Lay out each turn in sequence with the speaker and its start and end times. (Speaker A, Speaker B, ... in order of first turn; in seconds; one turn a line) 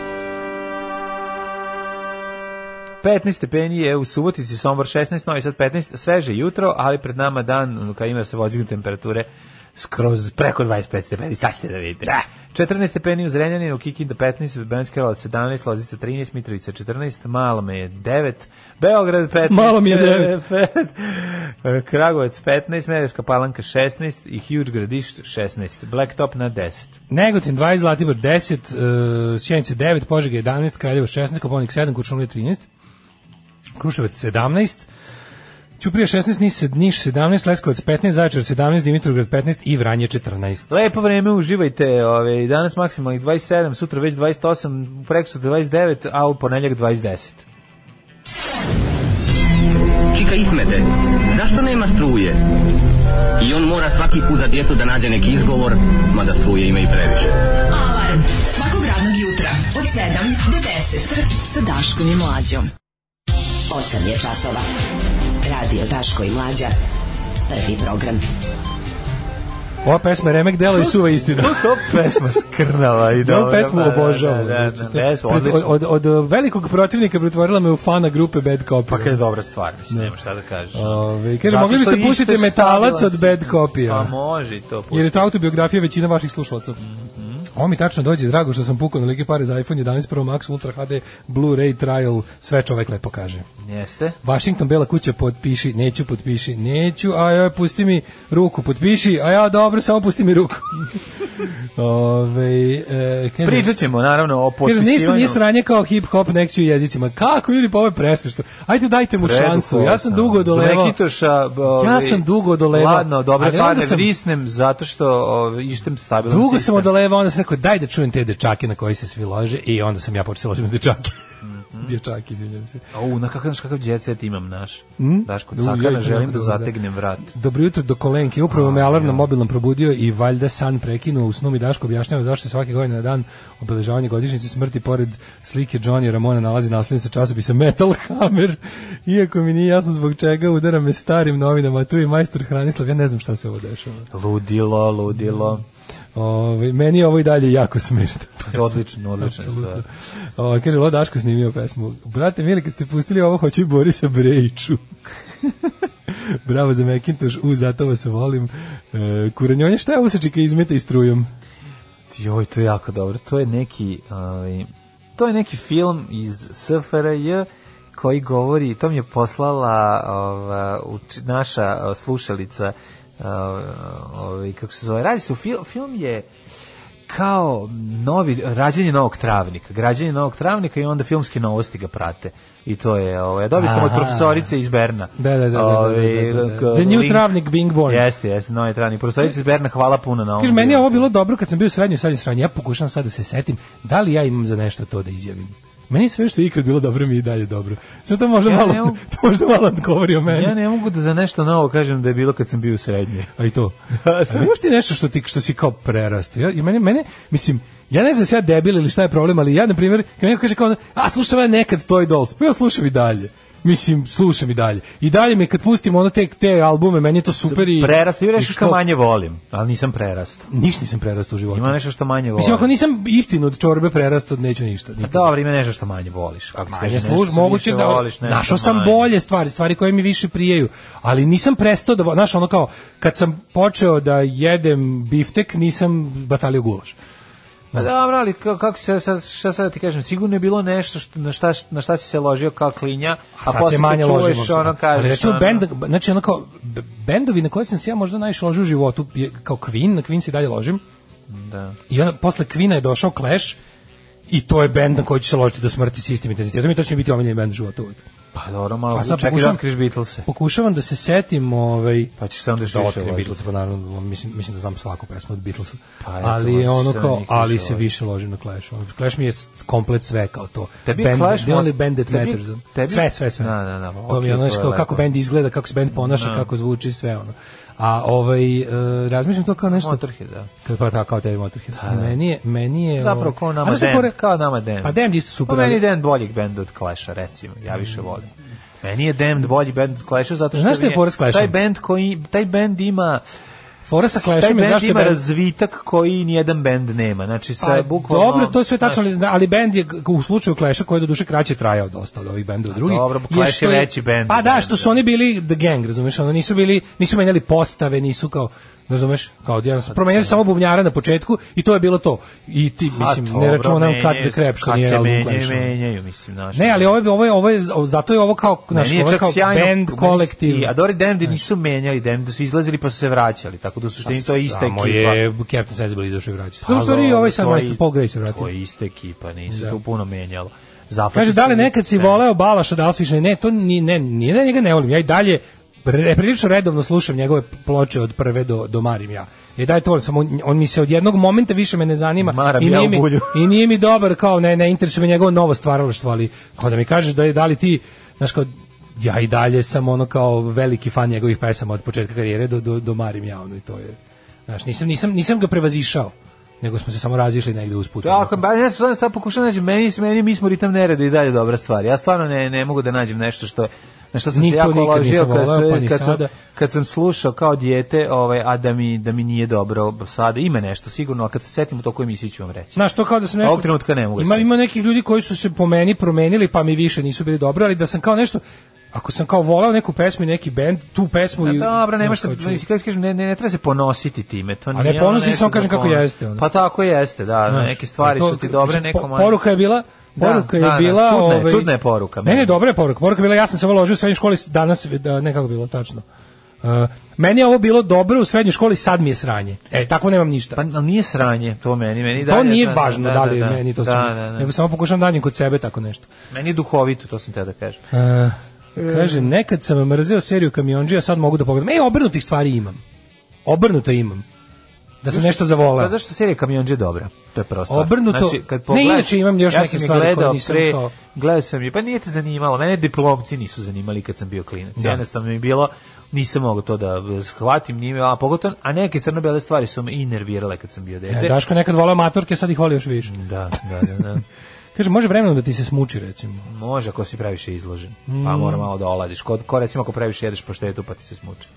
Speaker A: 3.0-27.0
Speaker B: 19.5-20.4
Speaker B: 27.1-32.6
Speaker B: 33.8-34.9
Speaker B: 35.8-40.7
Speaker A: 40.7-47.4
Speaker C: 50.1-52.4
Speaker C: 53.4-57.3
Speaker D: 57.7-62.7
Speaker E: 63.7-64.7
Speaker D: 65.5-66.2
Speaker E: 65.5-66.7
Speaker E: 67.5-68.2
Speaker B: 69.8-71.6
Speaker A: 71.3-75.8
Speaker B: 73.2-79.2
Speaker A: 78.9-85.3
Speaker B: 80.7-84.1
Speaker B: 84.9-86.8
Speaker A: 86.8-87.5
Speaker B: 87.5-93.5
Speaker A: 93.6-94.2
Speaker B: 94.2-100.8
Speaker B: 101.4-103.7
Speaker A: 103.4-105.4
Speaker B: 104.7-111.0
Speaker A: 109.2-116.9
Speaker B: 111.7-114.1
Speaker B: 116.3-121.2
Speaker A: 121.4-122.0
Speaker B: 121.8-122.8
Speaker A: 122.9-127.3
Speaker B: 125.0-126.7
Speaker B: 127.2-144.1
Speaker A: 128.5-129.3
Speaker A: 144.1-145.6
Speaker B: 146.2-154.8
Speaker A: 148.5-149.8
Speaker B: 156.1-161.3
Speaker A: 162.1-176.3
Speaker A: 177.1-191.1
Speaker B: 183.6-184.5
Speaker B: 185.2-188.1
Speaker B: 190.4-200.6
Speaker A: 198.5-199.0
Speaker A: 200.3-203.3
Speaker B: 203.4-203.8
Speaker A: 204.0-204.5
Speaker B: 204.3-218.8
Speaker A: 217.4-220.5
Speaker B: 220.5-221.8
Speaker A: 221.5-222.7
Speaker B: 222.4-225.3
Speaker A: 225.0-229.1
Speaker B: 226.7-237.0
Speaker A: 237.7-245.7
Speaker B: 243.4-250.8
Speaker A: 251.3-251.8
Speaker B: 251.9-253.6
Speaker B: 254.3-258.0
Speaker A: 258.3-260.3
Speaker B: 258.9-259.6
Speaker B: 260.2-262.1
Speaker A: 262.2-263.4
Speaker B: 262.7-273.5
Speaker A: 266.0-267.9
Speaker A: 270.9-275.1
Speaker B: 274.1-280.0
Speaker A: 275.9-276.5
Speaker A: 279.7-280.5
Speaker B: 280.6-284.2
Speaker A: 281.8-282.2
Speaker A: 283.0-288.3
Speaker B: 284.8-285.8
Speaker A: 288.8-293.2
Speaker B: 290.5-291.6
Speaker B: 293.9-295.2
Speaker A: 294.0-299.1
Speaker B: 297.6-315.8
Speaker A: 302.7-305.0
Speaker A: 309.9-310.4
Speaker A: 312.9-316.9
Speaker B: 316.6-320.7
Speaker A: 318.7-325.2
Speaker B: 324.0-328.5
Speaker A: 326.6-332.2
Speaker B: 329.5-329.8
Speaker B: 331.1-358.4
Speaker A: 342.2-343.5
Speaker A: 358.0-372.8
Speaker B: 364.3-366.3
Speaker B: 372.8-378.4
Speaker A: 373.4-374.5
Speaker B: 378.9-382.6
Speaker A: 381.4-389.4
Speaker B: 384.7-386.4
Speaker B: 387.5-391.7
Speaker A: 390.2-392.6
Speaker B: 392.2-396.0
Speaker B: 396.6-400.6
Speaker A: 400.6-404.5
Speaker B: 402.2-406.1
Speaker A: 406.3-407.8
Speaker B: 407.9-412.8
Speaker A: 408.8-409.3
Speaker B: 413.4-414.2
Speaker B: 415.0-415.9
Speaker A: 415.1-431.4
Speaker B: 417.7-420.9
Speaker B: 431.1-433.1
Speaker A: 433.1-434.2
Speaker B: 434.8-436.5
Speaker A: 436.5-441.5
Speaker B: 438.1-438.7